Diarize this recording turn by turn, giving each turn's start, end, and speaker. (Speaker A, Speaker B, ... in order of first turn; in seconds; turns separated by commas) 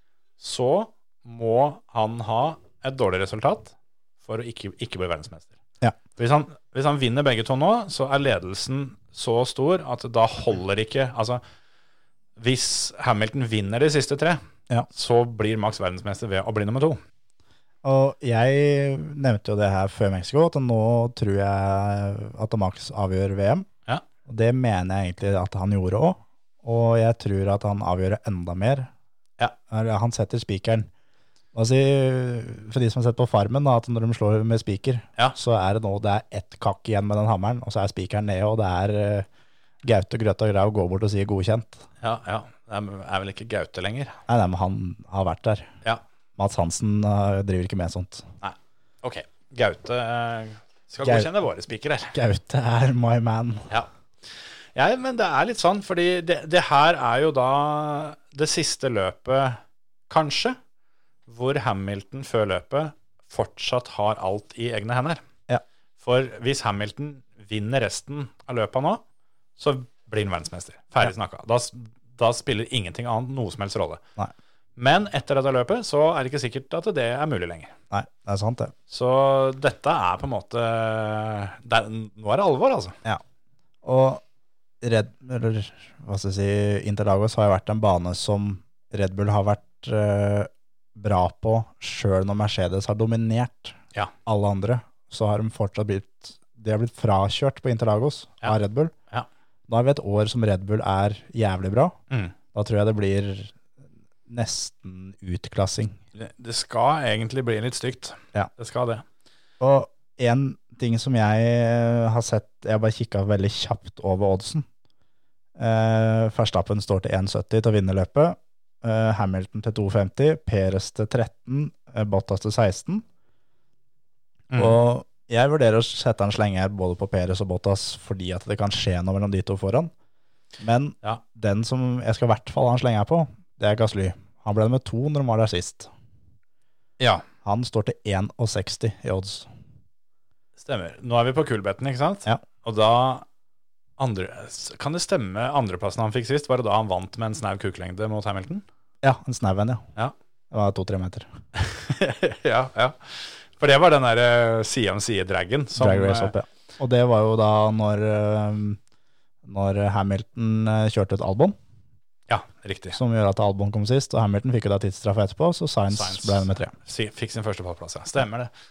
Speaker A: 0.4-5.6, Speaker A: 6.2-11.4, Speaker A: 12.4-17.0, Speaker B: 17.8-23.7, Speaker B: 24.3-28.9, Speaker B: 29.7-30.9, Speaker B: 31.5-39.3, Speaker B: 39.8-41.9, Speaker A: 42.0-44.2, Speaker B: 44.3-45.7, Speaker B: 46.4-48.3, Speaker A: 48.4-52.1, Speaker B: 51.0-51.3, Speaker B: 52.1-53.7, Speaker A: 54.8-60.6, Speaker A: 61.3-65.2, Speaker A: 66.0-69.0, Speaker A: 69.6-74.0, Speaker A: 74.8-77.7, Speaker B: 77.9-78.7, Speaker A: 78.9-83.0, Speaker B: 83.8-84.2, Speaker B: 84.8-98.9, Speaker B: 99.7-102.0, Speaker A: 102.1-102.3, Speaker B: 102.5-103.6, Speaker B: 104.3-106.0, Speaker A: 106.2-109.0, Speaker B: 109.6-114.7, Speaker B: 115.6-123.0, Speaker A: 124.5-124.8, Speaker B: 124.6-129.9, Speaker B: 130.6-135.9, Speaker A: 137.0-137.2, Speaker B: 137.4-139.5, Speaker A: 140.6-143.3, Speaker A: 144.0-148.6, Speaker B: 149.0-149.8, Speaker B: 150.5-151.3, Speaker A: 151.6-156.3, Speaker B: 155.8-158.8, Speaker B: 159.4-161.6, Speaker A: 162.3-163.0, Speaker B: 162.9-166.7, Speaker A: 165.9-168.5